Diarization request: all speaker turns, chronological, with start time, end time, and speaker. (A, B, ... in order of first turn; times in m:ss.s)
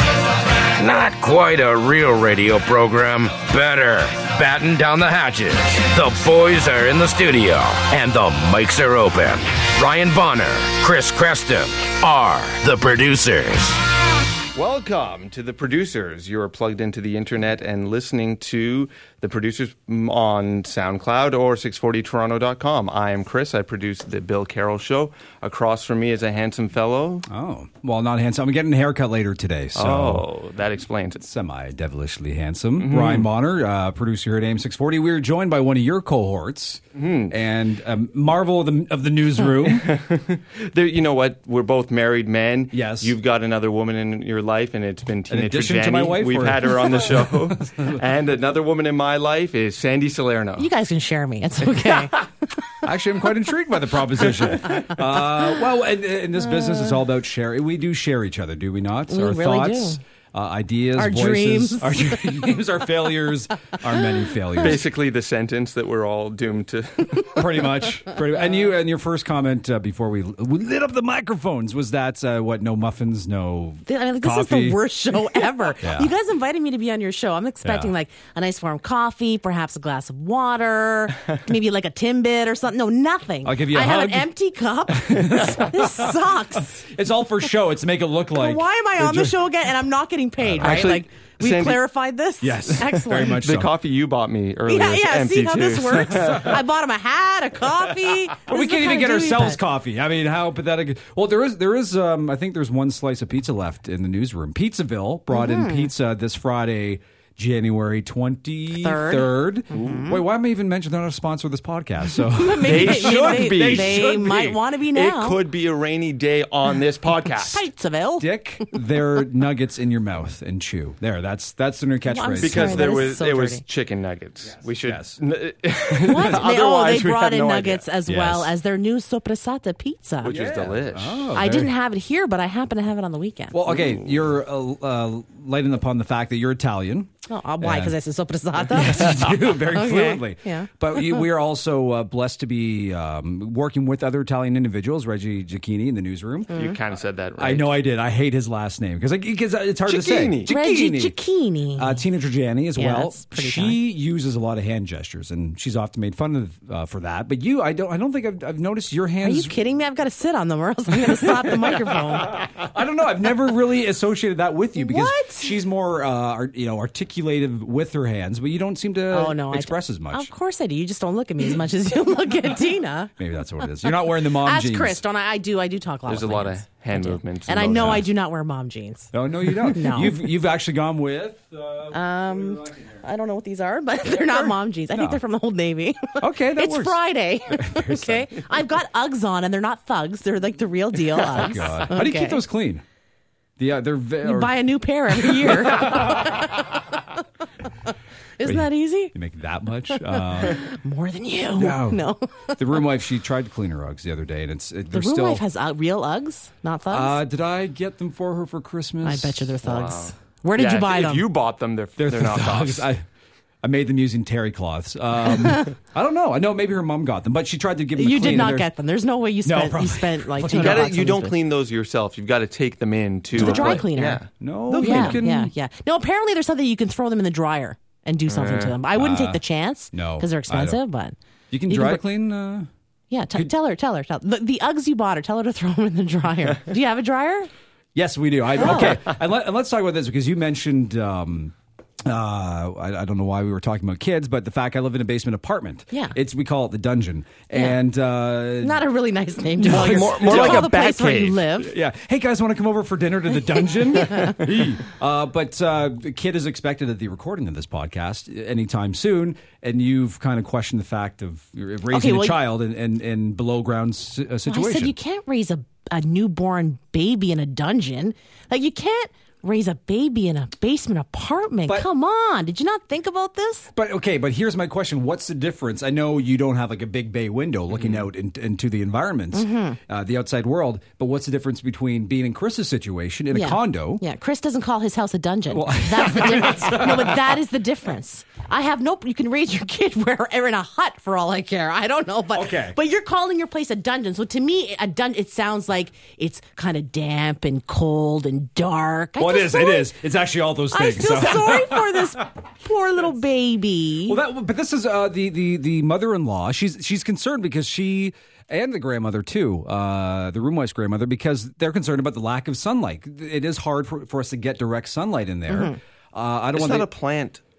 0:00.4-0:13.8 A
0:14.5-0:27.3 B
0:27.3-0:30.2 C
0:29.7-0:31.2 B
0:31.2-0:39.9 C
0:32.8-0:33.3 B
0:37.0-0:37.3 B
0:39.6-0:50.7 B
0:42.7-0:43.1 C
0:45.3-0:48.0 C
0:50.6-0:52.2 D
0:52.8-1:04.8 C
0:59.1-1:00.0 D
1:01.0-1:02.1 D
1:04.6-1:07.4 B
1:07.3-1:14.8 C
1:13.8-1:26.8 D
1:15.8-1:16.1 C
1:17.6-1:17.9 C
1:23.4-1:24.3 C
1:24.9-1:29.4 C
1:28.3-1:33.4 D
1:30.4-1:31.0 C
1:30.6-1:31.8 B
1:32.4-1:33.7 C
1:33.1-1:36.6 B
1:34.7-1:39.6 D
1:36.2-1:36.5 C
1:38.3-1:54.6 C
1:45.3-1:45.9 D
1:48.7-1:50.2 D
1:49.7-1:50.1 B
1:52.3-1:55.4 D
1:52.6-1:54.0 B
1:54.9-1:57.6 B
1:57.5-1:58.7 D
1:58.2-2:03.0 C
2:02.1-2:03.6 D
2:02.4-2:07.8 B
2:04.4-2:05.2 C
2:06.0-2:10.3 D
2:08.0-2:08.5 C
2:10.2-2:11.4 B
2:10.2-2:11.7 C
2:11.3-2:13.6 D
2:13.5-2:18.0 C
2:13.7-2:14.2 B
2:17.3-2:21.2 D
2:18.6-2:26.6 C
2:26.5-2:27.7 B
2:26.5-2:26.8 D
2:27.4-2:31.2 C
2:29.8-2:30.5 B
2:30.5-2:32.0 D
2:31.8-2:39.6 C
2:32.8-2:33.8 D
2:39.2-2:42.4 D
2:40.9-2:41.8 C
2:42.4-2:50.3 C
2:44.8-2:45.5 D
2:49.1-2:53.1 D
2:53.2-2:55.0 C
2:53.8-3:00.2 D
2:56.1-2:58.1 B
2:57.8-2:58.1 C
2:59.1-3:03.0 C
3:01.9-3:12.4 D
3:04.9-3:05.2 C
3:06.2-3:07.0 C
3:07.5-3:08.5 C
3:11.1-3:12.8 C
3:13.6-3:14.6 C
3:14.2-3:16.8 D
3:15.1-3:16.5 C
3:18.4-3:19.1 D
3:18.4-3:20.6 C
3:19.9-3:22.6 D
3:21.6-3:22.0 C
3:22.6-3:25.4 C
3:24.9-3:27.2 D
3:26.9-3:29.6 C
3:29.0-3:31.3 D
3:29.6-3:32.9 B
3:32.0-3:33.0 C
3:33.6-3:38.7 C
3:38.0-3:41.4 D
3:39.4-3:40.9 C
3:40.5-3:45.2 B
3:43.4-3:44.2 D
3:43.4-3:45.5 C
3:44.8-3:51.1 D
3:48.3-3:48.7 B
3:48.9-3:50.8 C
3:51.5-3:52.7 C
3:51.7-3:52.0 D
3:53.1-3:57.5 D
3:57.9-4:08.8 C
3:58.6-3:59.0 D
4:05.9-4:06.2 D
4:08.6-4:11.7 D
4:09.6-4:10.7 C
4:09.7-4:11.5 B
4:11.6-4:25.0 C
4:13.9-4:14.4 D
4:21.9-4:22.4 D
4:24.5-4:33.7 D
4:33.7-4:44.0 C
4:37.8-4:38.0 B
4:39.3-4:39.8 D
4:43.3-4:59.9 D
4:45.5-4:47.4 C
4:52.3-4:52.8 C
4:59.2-5:02.1 C
5:00.7-5:04.2 D
5:04.1-5:16.9 C
5:15.5-5:15.8 D
5:16.5-5:17.4 B